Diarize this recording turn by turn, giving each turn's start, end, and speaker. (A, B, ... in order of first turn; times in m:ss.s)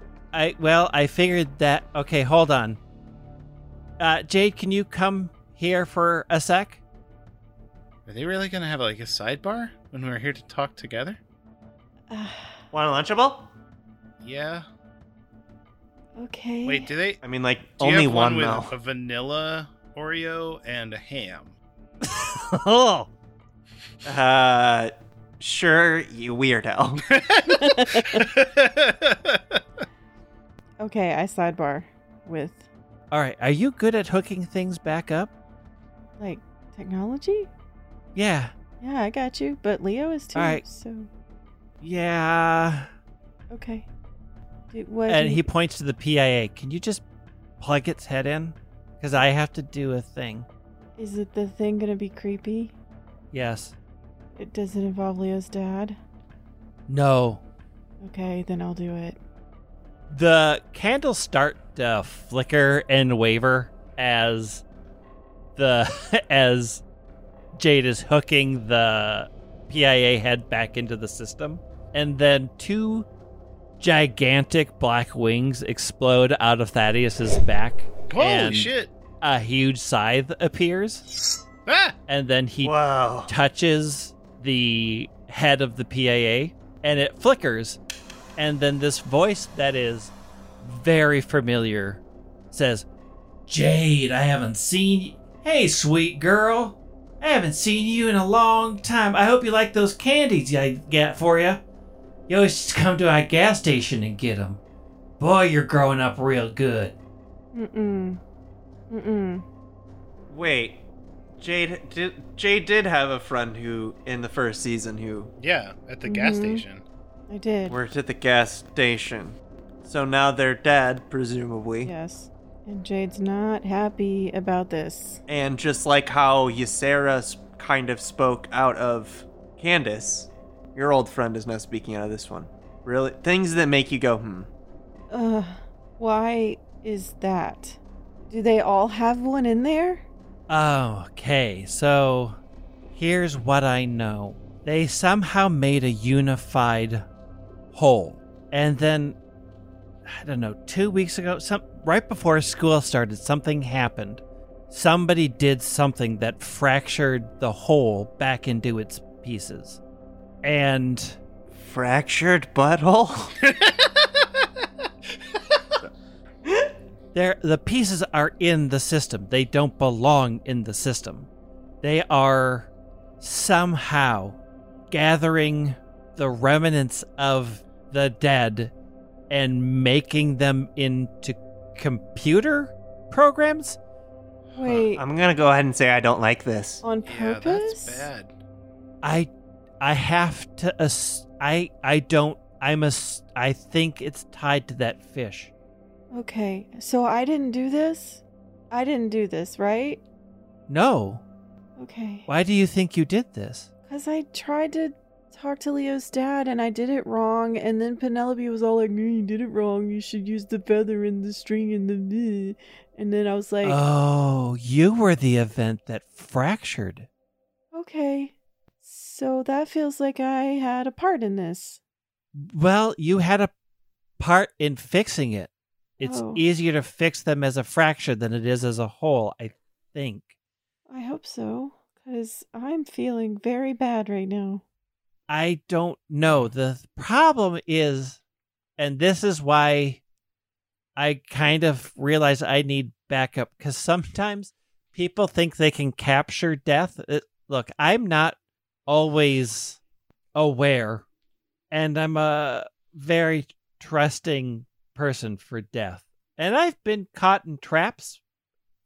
0:00.3-0:02.8 A
0:04.0-0:06.8 A
0:08.1-0:11.2 B
0:12.1-0:12.6 C
0:12.7-0:13.5 D
0:14.2-0:14.6 B
0:16.2-0:16.9 C
0:16.7-0:17.2 B
0:17.2-0:18.7 D
0:17.8-0:21.5 B
0:22.0-0:23.1 A
0:24.0-0:27.1 D
0:27.0-0:29.6 B
0:27.6-0:28.2 C
0:30.8-0:32.7 C
0:33.1-0:35.3 A
0:36.2-0:37.5 C
0:38.2-0:38.5 A
0:38.8-0:41.1 C
0:40.4-0:40.6 A
0:41.8-0:42.9 A
0:43.5-0:43.9 C
0:44.7-0:45.4 C
0:45.1-0:47.0 A
0:47.6-0:50.5 A
0:51.0-0:52.8 C
0:53.3-0:53.7 A
0:54.4-0:56.0 C
0:56.9-0:57.4 A
0:58.0-0:59.2 C
1:00.1-1:04.6 A
1:05.6-1:06.8 A
1:07.6-1:13.1 A
1:13.8-1:21.0 A
1:18.1-1:18.9 B
1:21.7-1:22.0 B
1:22.1-1:22.8 A
1:22.6-1:23.3 D
1:23.3-1:27.8 A
1:28.4-1:32.9 A
1:33.5-1:41.6 A
1:42.3-1:44.6 A
1:45.2-1:46.9 A
1:47.5-1:48.2 C
1:48.9-1:49.4 C
1:50.3-1:50.8 D
1:51.4-1:55.3 D
1:55.4-1:56.8 B
1:56.0-1:56.6 C
1:57.3-1:57.8 C
1:57.7-2:01.9 D
2:01.8-2:05.2 C
2:05.3-2:14.5 D
2:15.1-2:17.8 C
2:18.3-2:20.0 C
2:20.5-2:22.4 A
2:22.9-2:27.1 A
2:27.7-2:29.2 A
2:30.0-2:39.8 A
2:40.4-2:41.2 A
2:41.5-2:43.3 D
2:43.4-2:44.5 B
2:47.1-2:51.3 A
2:51.8-2:52.7 A
2:53.2-2:54.4 A
2:54.9-2:58.7 A
2:59.3-3:03.8 A
3:04.5-3:05.0 C
3:05.0-3:06.8 D
3:06.8-3:08.1 C
3:07.1-3:08.3 B
3:09.0-3:15.5 A
3:16.1-3:20.0 C
3:20.7-3:21.2 A
3:21.8-3:22.3 C
3:22.3-3:23.7 A
3:23.9-3:33.8 C
3:33.6-3:37.1 A
3:37.7-3:41.8 C
3:42.4-3:43.5 A
3:44.2-3:50.3 A
3:46.0-3:46.4 C
3:50.9-3:54.6 C
3:55.3-3:58.2 A
3:58.8-4:00.0 A
4:01.0-4:09.8 A
4:10.4-4:11.0 A
4:11.7-4:18.2 A